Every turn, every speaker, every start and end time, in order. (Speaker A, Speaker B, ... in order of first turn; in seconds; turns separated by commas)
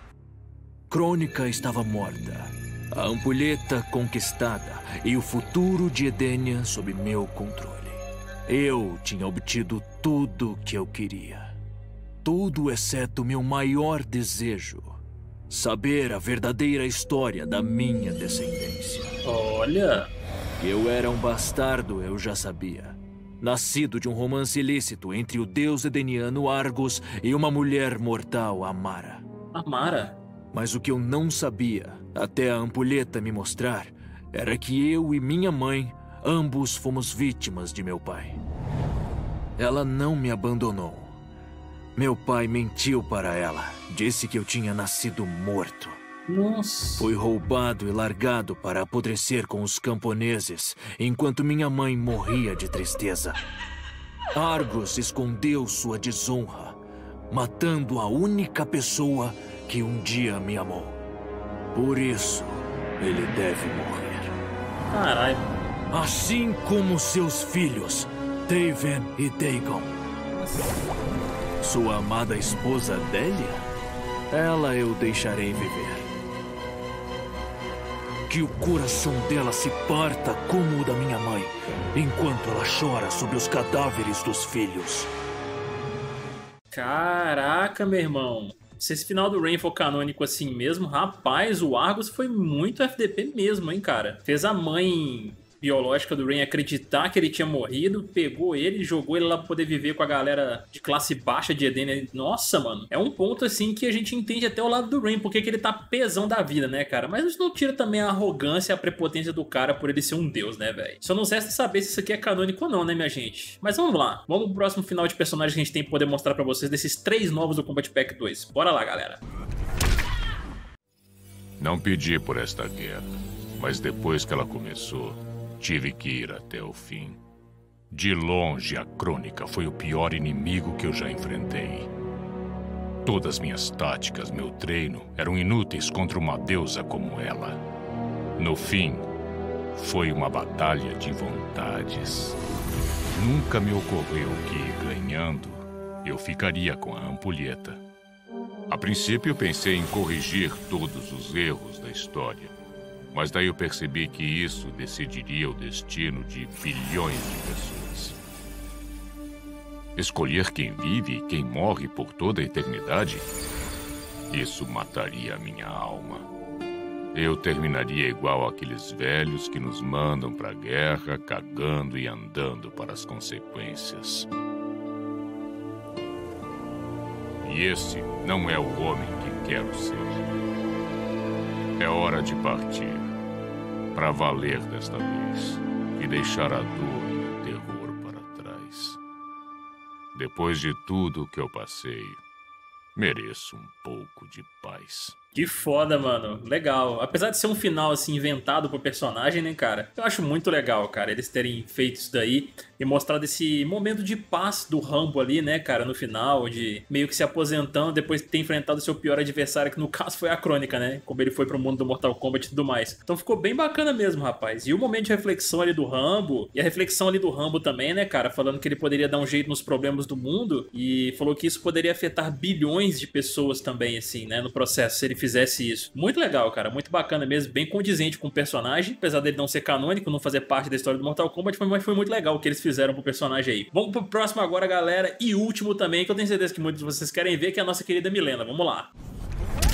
Speaker A: 0.9-11.6, Speaker A: 12.2-19.2, Speaker B: 19.2-20.1, Speaker A: 20.6-29.2, Speaker B: 29.5-30.2, Speaker A: 30.5-38.4, Speaker A: 39.6-41.2, Speaker A: 42.0-46.0, Speaker B: 46.3-47.1, Speaker A: 47.0-53.4, Speaker A: 54.3-56.8, Speaker A: 57.3-61.0, Speaker A: 61.7-64.3, Speaker B: 64.9-65.5, Speaker A: 65.9-70.0, Speaker A: 71.6-73.7, Speaker A: 74.3-76.1, Speaker A: 78.3-85.1, Speaker B: 86.7-119.2, Speaker C: 121.6-127.2, Speaker C: 127.9-131.9, Speaker C: 133.0-137.6, Speaker C: 138.4-139.1, Speaker C: 139.7-142.4, Speaker C: 143.1-147.8, Speaker C: 148.7-152.5, Speaker C: 153.1-158.2, Speaker C: 159.9-163.3, Speaker C: 164.3-166.3, Speaker C: 167.1-174.3, Speaker C: 177.4-180.3, Speaker C: 181.8-183.2, Speaker C: 183.9-189.0, Speaker C: 190.1-192.2, Speaker C: 192.9-195.2, Speaker B: 195.3-238.9